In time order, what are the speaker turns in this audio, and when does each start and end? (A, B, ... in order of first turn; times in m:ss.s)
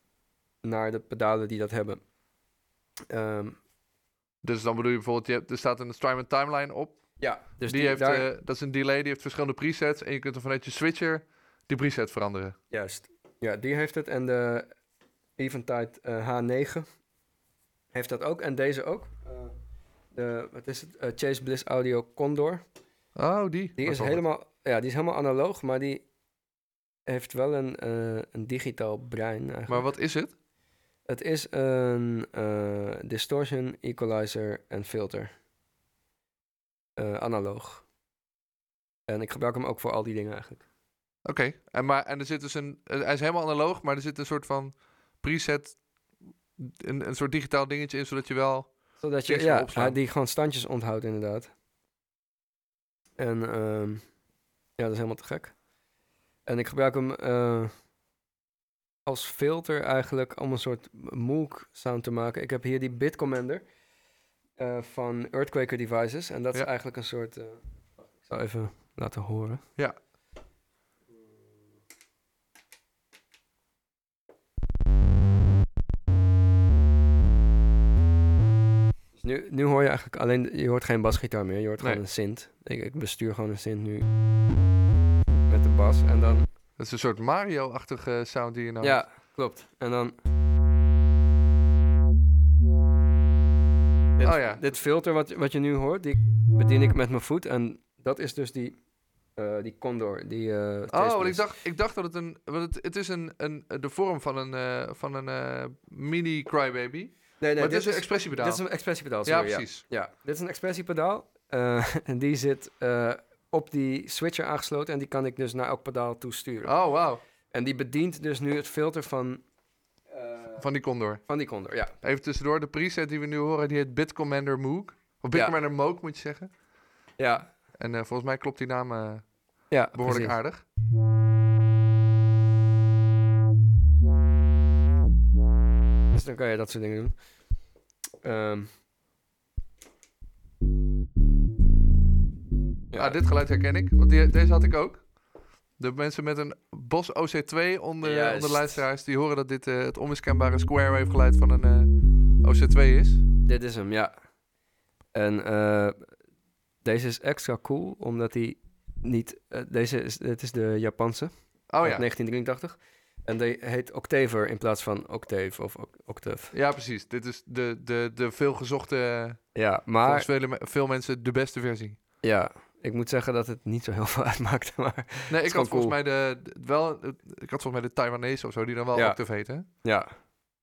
0:00.6-0:02.0 A
0:03.1-0:03.6 A
0:04.4-0:07.0 B
0:07.2-0:08.3 A
0:07.6-0:12.6 B
0:12.7-0:14.7 A
0:15.4-0:16.8 A
0:17.9-0:19.5 A
0:20.1-0:22.6 A
0:23.1-0:24.2 B
0:23.8-0:26.0 A
0:27.1-0:29.8 A
0:29.7-0:30.3 B
0:31.0-0:35.3 A
0:37.0-0:37.8 A
0:39.1-0:40.6 A
0:41.2-0:45.8 B
0:46.6-0:50.0 B
0:49.0-0:51.5 A
0:53.2-0:54.0 A
0:54.8-0:55.5 A
0:56.4-0:57.7 A
0:59.0-1:03.6 A
1:04.6-1:09.6 A
1:19.2-1:24.1 A
1:25.5-1:26.5 A
1:26.8-1:29.0 B
1:28.8-1:30.2 A
1:34.2-1:38.8 A
1:34.2-1:34.6 B
1:39.4-1:41.4 A
1:40.9-1:48.6 B
1:47.4-1:56.7 A
1:49.2-1:49.8 B
1:56.6-1:57.2 B
1:57.5-1:59.4 A
2:00.1-2:00.6 A
2:00.6-2:01.2 B
2:01.3-2:01.9 A
2:02.0-2:06.5 B
2:07.2-2:07.5 A
2:07.8-2:09.2 B
2:09.7-2:10.4 A
2:09.9-2:10.6 B
2:16.1-2:17.1 A
2:18.2-2:18.7 A
2:22.9-2:23.2 A
2:23.0-2:25.1 B
2:25.8-2:33.2 B
2:28.0-2:28.8 A
2:33.4-2:34.1 A
2:35.1-2:36.0 A
2:36.8-2:46.5 A
2:41.7-2:42.0 B
2:46.5-2:49.5 B
2:49.5-2:50.3 A
2:50.0-2:52.0 B
2:52.2-2:56.0 A
2:55.3-2:59.6 B
2:58.9-2:59.2 A
2:59.8-3:00.1 A